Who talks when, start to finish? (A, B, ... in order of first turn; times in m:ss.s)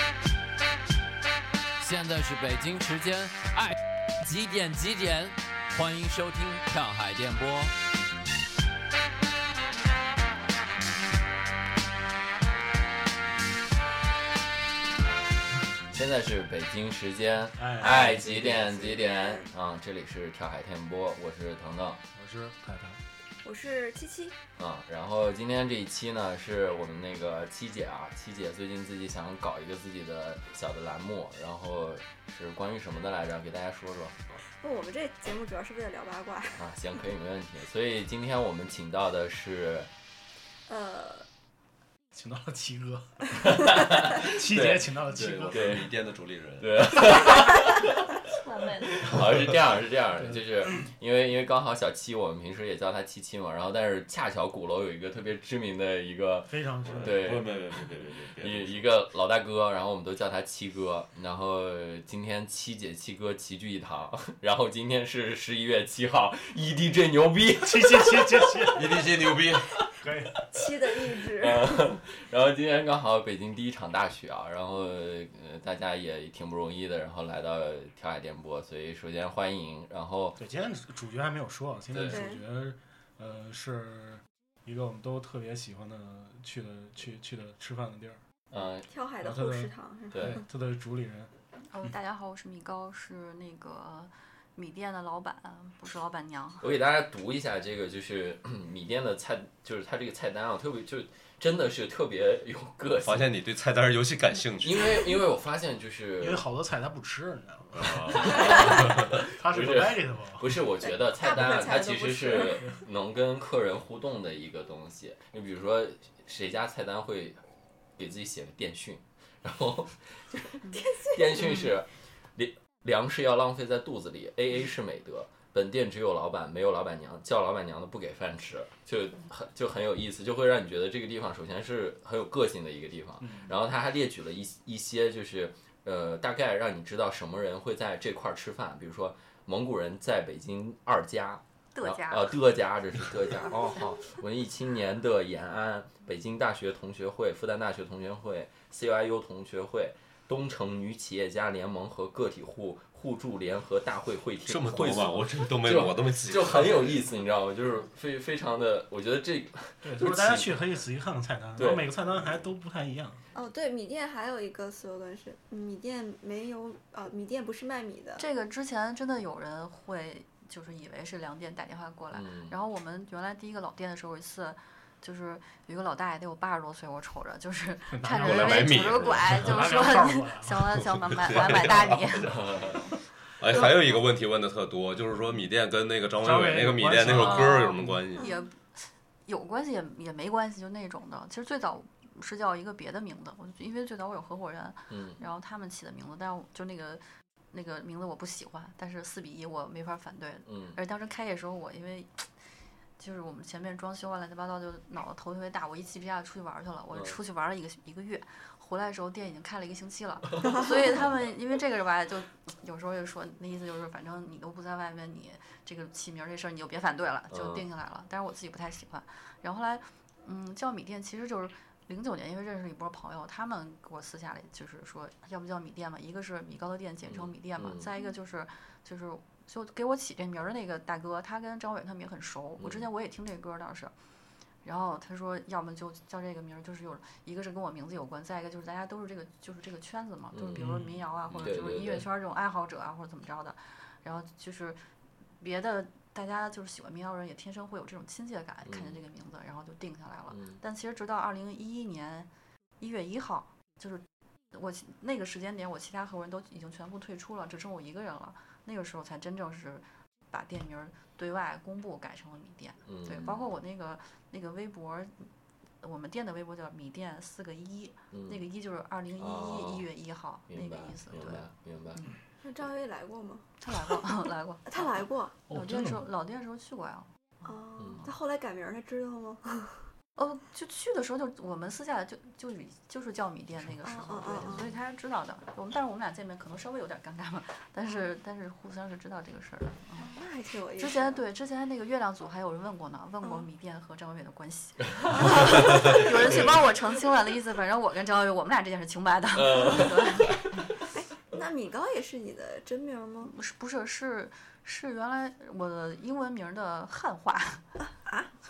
0:01.8-0:07.7 A
0:15.9-0:22.0 A
0:17.6-0:18.5 B
0:17.8-0:19.5 C
0:22.1-0:23.0 B
0:23.4-0:24.4 C
0:24.6-0:34.4 A
0:34.4-0:36.7 C
0:36.6-0:39.9 A
0:40.7-0:41.3 C
0:42.1-0:43.4 B
0:43.3-0:45.9 A
0:44.1-0:45.8 B
0:45.1-0:47.0 D
0:46.6-0:48.2 A
0:48.3-0:49.0 E
0:48.9-0:57.8 A
0:50.1-0:50.8 B
0:56.5-0:57.4 B
0:56.8-0:58.9 D
0:58.4-1:09.0 A
1:07.6-1:09.0 B
1:08.7-1:09.8 D
1:10.0-1:10.5 B
1:10.5-1:11.7 C
1:10.6-1:20.4 A
1:20.4-1:28.2 B
1:21.9-1:22.2 A
1:22.1-1:22.4 C
1:28.5-1:28.9 A
1:28.8-1:30.4 C
1:29.2-1:31.9 B
1:30.1-1:30.4 A
1:31.6-1:36.6 E
1:36.6-1:43.3 A
1:43.0-1:45.1 D
1:44.6-1:46.4 A
1:46.2-1:50.6 B
1:47.8-1:49.0 D
1:47.9-1:57.4 A
1:50.8-1:52.8 C
1:58.0-2:40.5 A
2:00.6-2:01.6 C
2:13.2-2:13.5 B
2:21.7-2:22.4 E
2:34.4-2:37.1 D
2:39.8-2:43.2 B
2:41.6-2:42.0 A
2:43.3-2:48.2 C
2:48.2-3:02.8 E
2:52.1-2:52.5 A
2:57.9-3:02.0 B
2:58.2-2:59.7 D
3:01.0-3:02.4 D
3:02.3-3:02.9 A
3:03.4-3:08.3 D
3:06.2-3:08.0 B
3:07.2-3:07.6 E
3:08.2-3:08.4 C
3:08.2-3:53.9 E
3:14.9-3:15.2 A
3:20.4-3:20.8 A
3:26.9-3:27.2 A
3:30.3-3:31.2 A
3:37.3-3:37.6 A
3:47.0-3:47.8 A
3:52.6-3:52.9 A
3:54.6-4:04.8 E
4:00.3-4:02.1 A
4:00.6-4:01.0 B
4:05.4-4:25.3 E
4:08.6-4:09.0 A
4:10.3-4:10.6 A
4:22.8-4:23.5 A
4:25.8-4:32.2 E
4:28.1-4:28.4 A
4:29.2-4:29.9 A
4:30.5-4:32.0 A
4:32.4-4:34.1 C
4:33.6-4:37.5 E
4:34.6-4:35.3 C
4:35.5-4:36.1 B
4:37.4-4:39.9 C
4:37.8-4:38.1 A
4:40.2-4:50.1 E
4:43.8-4:44.7 C
4:47.9-4:48.1 C
4:50.0-4:51.2 C
4:50.8-5:00.8 E
4:53.2-4:53.5 C
4:55.1-4:56.4 C
4:56.2-4:56.6 A
4:59.3-5:00.3 A
5:00.9-5:03.3 C
5:03.2-5:07.8 E